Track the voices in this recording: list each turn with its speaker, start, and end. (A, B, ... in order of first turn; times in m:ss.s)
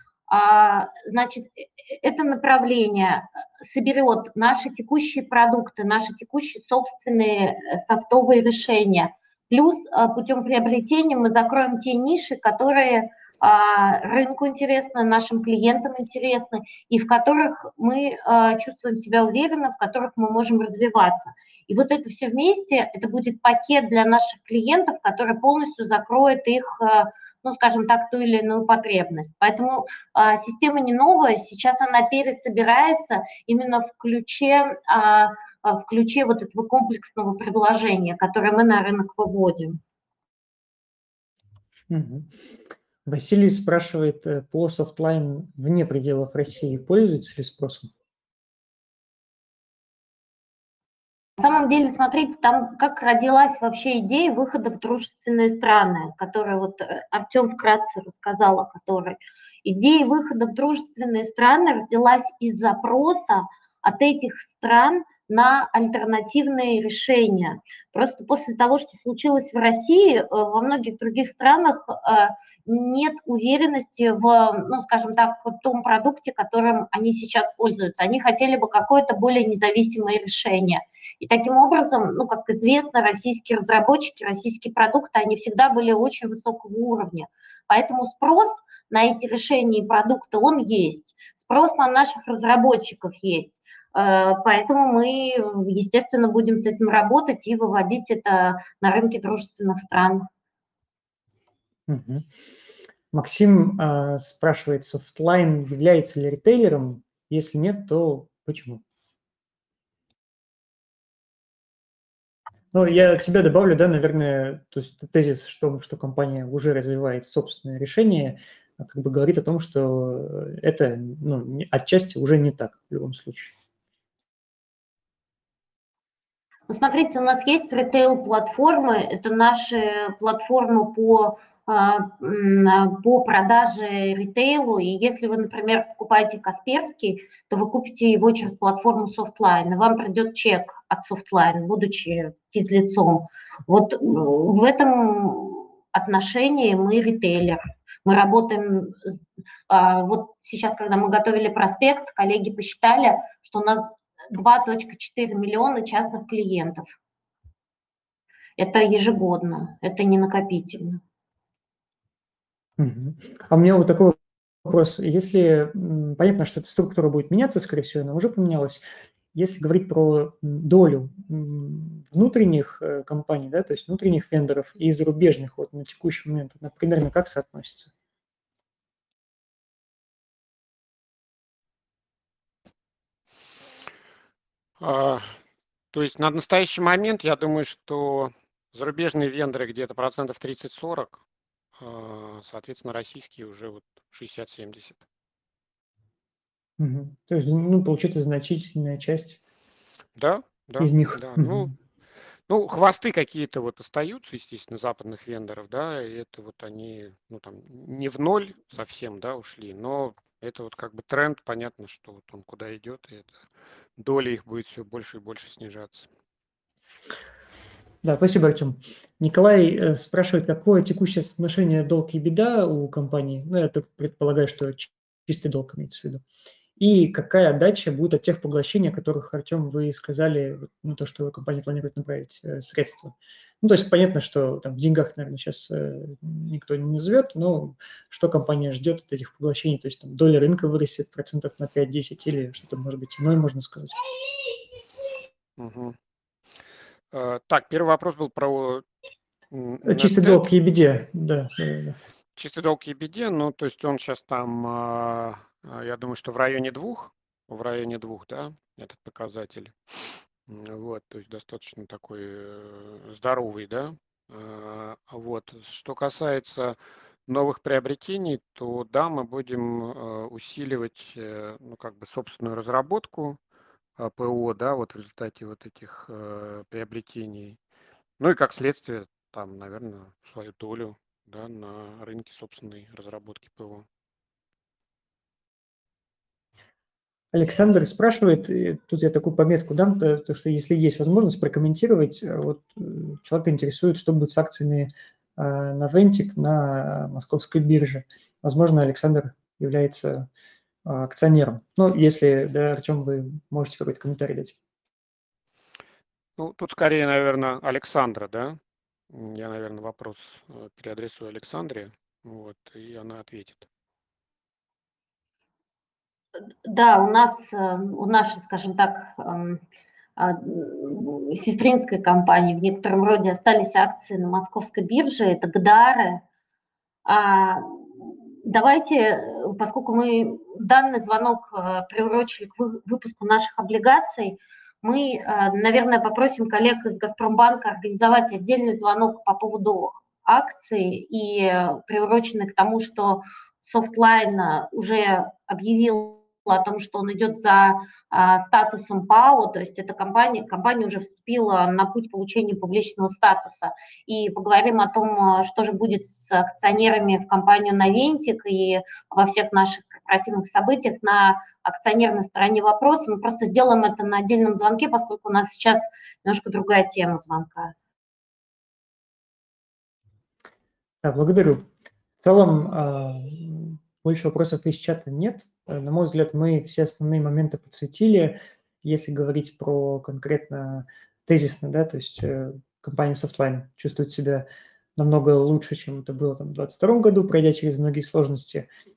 0:00.3-0:39.8 A
0:41.9-0:42.3 B
0:43.1-0:47.9 B
0:51.4-1:40.3 A
1:41.9-1:42.3 B
1:43.1-1:48.8 B
1:52.7-2:03.5 B
2:06.7-2:37.0 A
2:38.6-2:41.0 A
2:42.8-2:48.8 B
2:49.3-2:57.9 B
3:04.8-3:05.4 C
3:05.9-3:11.2 C
3:11.8-3:15.0 C
3:16.8-3:19.4 B
3:20.2-3:21.7 C
3:20.8-3:21.7 B
3:22.5-3:33.5 C
3:34.0-3:36.1 C
3:38.0-3:46.2 B
3:46.8-4:04.0 B
4:05.6-4:06.0 C
4:07.1-4:08.8 C
4:09.5-4:10.4 C
4:09.8-4:12.0 B
4:12.4-4:33.4 C
4:34.0-4:37.6 C
4:38.2-4:43.9 C
4:47.3-5:00.3 B
5:00.8-5:04.6 B
5:06.4-5:08.6 C
5:09.1-5:13.7 C
5:16.6-5:19.6 A
5:20.2-5:26.2 A
5:27.0-6:07.7 A
6:11.0-6:11.7 B
6:12.2-6:28.7 B